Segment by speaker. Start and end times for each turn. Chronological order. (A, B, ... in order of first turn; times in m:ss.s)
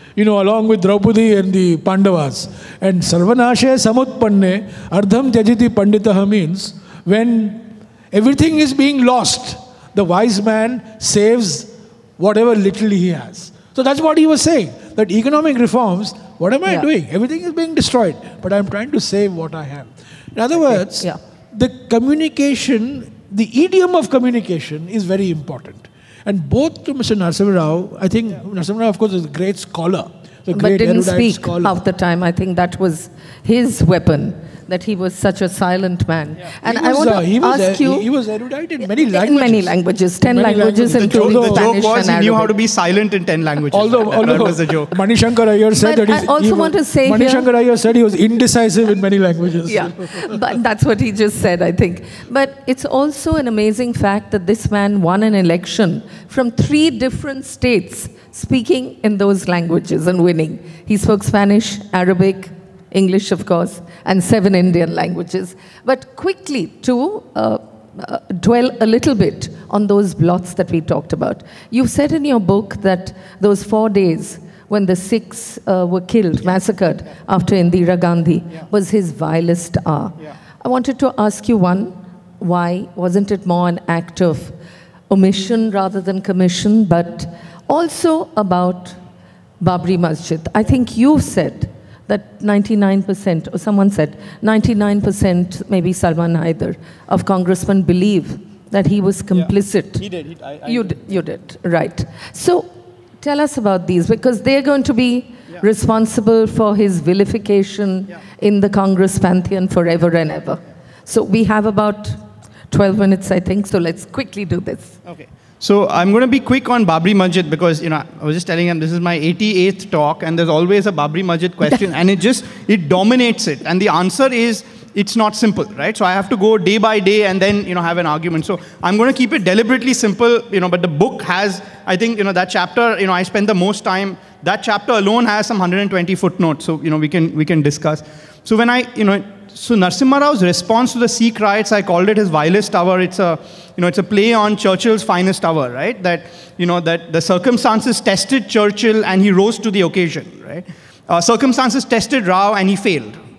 0:00.2-0:31.8 A
0:30.5-0:38.1 B
0:36.6-0:39.7 A
0:39.0-0:42.5 B
0:40.2-0:41.7 A
0:41.0-0:45.0 C
0:43.7-0:50.4 A
0:45.8-0:47.5 B
0:49.7-1:24.6 B
1:25.1-1:29.0 B
1:29.6-1:40.0 B
1:40.0-1:41.0 C
1:40.6-1:42.7 B
1:43.2-1:55.0 B
1:55.1-2:33.2 C